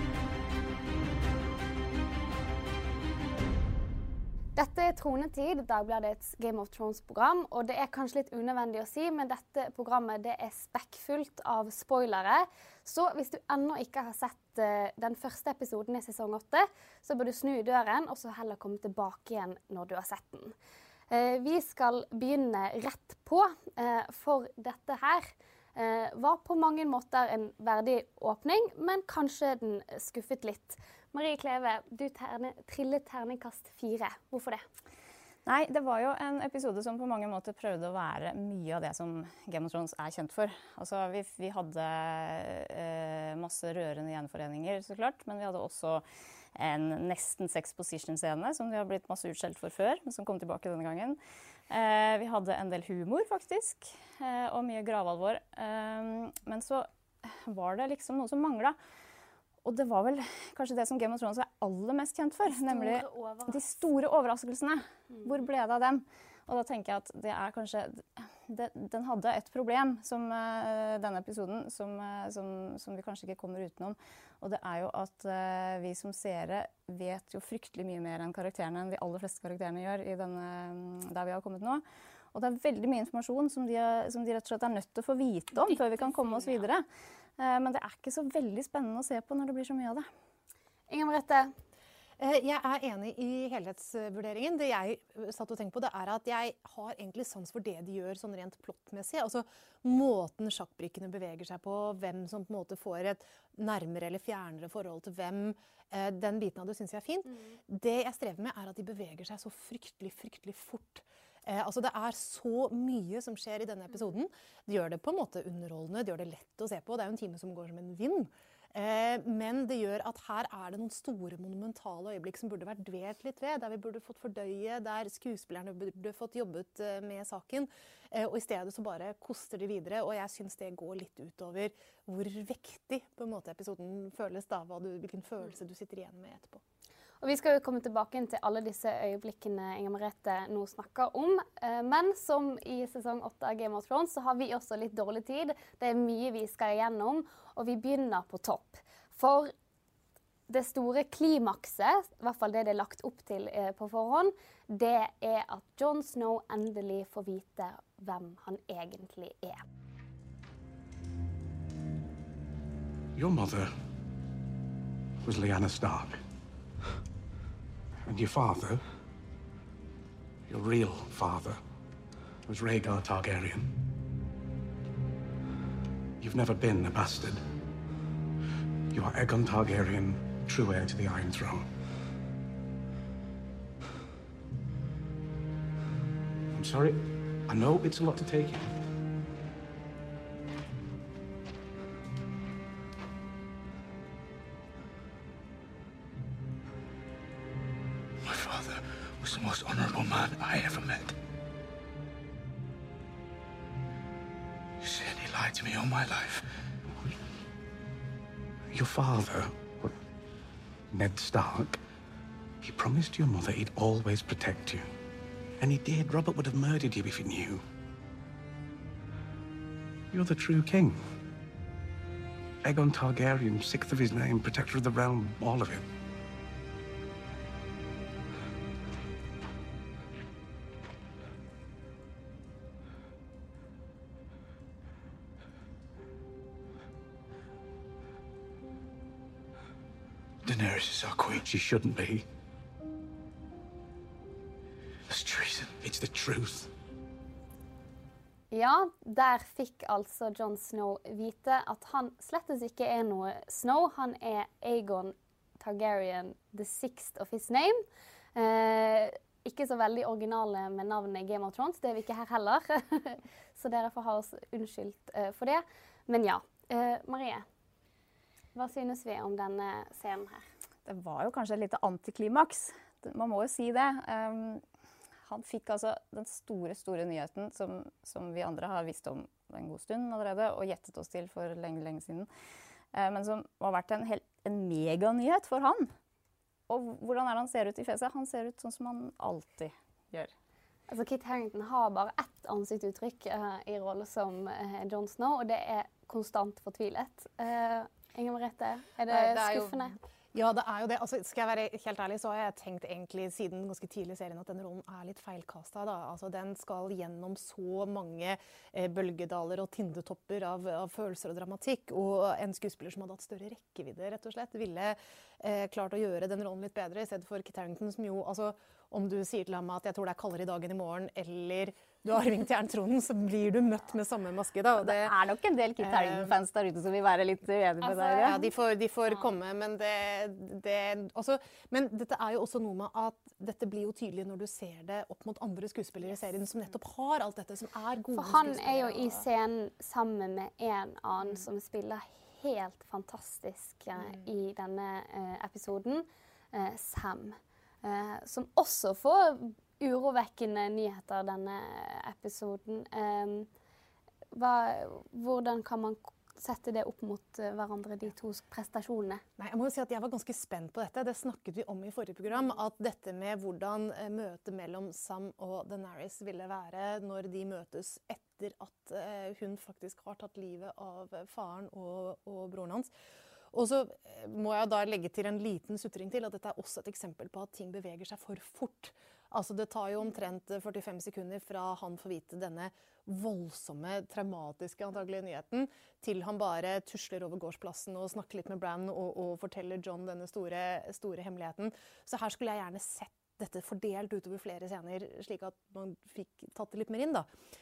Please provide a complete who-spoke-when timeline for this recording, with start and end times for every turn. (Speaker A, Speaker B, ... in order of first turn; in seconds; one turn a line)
Speaker A: 4.5-20.5
Speaker A: 21.1-34.6
Speaker B: 35.5-46.0
Speaker B: 46.5-51.2
Speaker B: 51.7-58.8
Speaker B: 59.6-81.8
Speaker A: 62.5-63.8
Speaker B: 82.3-86.8
Speaker B: 87.4-90.1
Speaker A: 90.9-91.5
Speaker C: 92.2-136.6
Speaker A: 107.3-107.6
Speaker A: 137.2-149.5
Speaker A: 150.5-159.6
Speaker D: 163.1-163.7
Speaker D: 165.2-166.2
Speaker D: 168.1-168.8
Speaker D: 170.5-171.6
Speaker D: 172.4-173.7
Speaker D: 176.2-177.4
Speaker D: 178.9-181.7
Speaker D: 186.5-188.8
Speaker D: 198.2-201.1
Speaker D: 204.8-206.5
Speaker D: 208.7-210.0
Speaker D: 210.9-211.8
Speaker D: 212.6-214.9
Speaker D: 215.6-217.6
Speaker D: 220.1-221.2
Speaker D: 222.6-225.8
Speaker D: 240.4-242.2
Speaker D: 245.1-246.7
Speaker A: 248.5-257.8
Speaker A: 258.3-267.4
Speaker A: 268.5-270.4
Speaker B: 270.8-274.6
Speaker B: 275.2-282.3
Speaker B: 282.9-285.9
Speaker B: 286.7-290.3
Speaker A: 290.9-299.9
Speaker C: 299.1-325.1
Speaker B: 324.8-328.4
Speaker C: 325.8-326.3
Speaker A: 327.8-328.4
Speaker C: 328.1-339.2
Speaker A: 338.1-353.5
Speaker C: 343.9-344.2
Speaker A: 354.3-359.2
Speaker C: 359.4-372.9
Speaker C: 373.5-397.3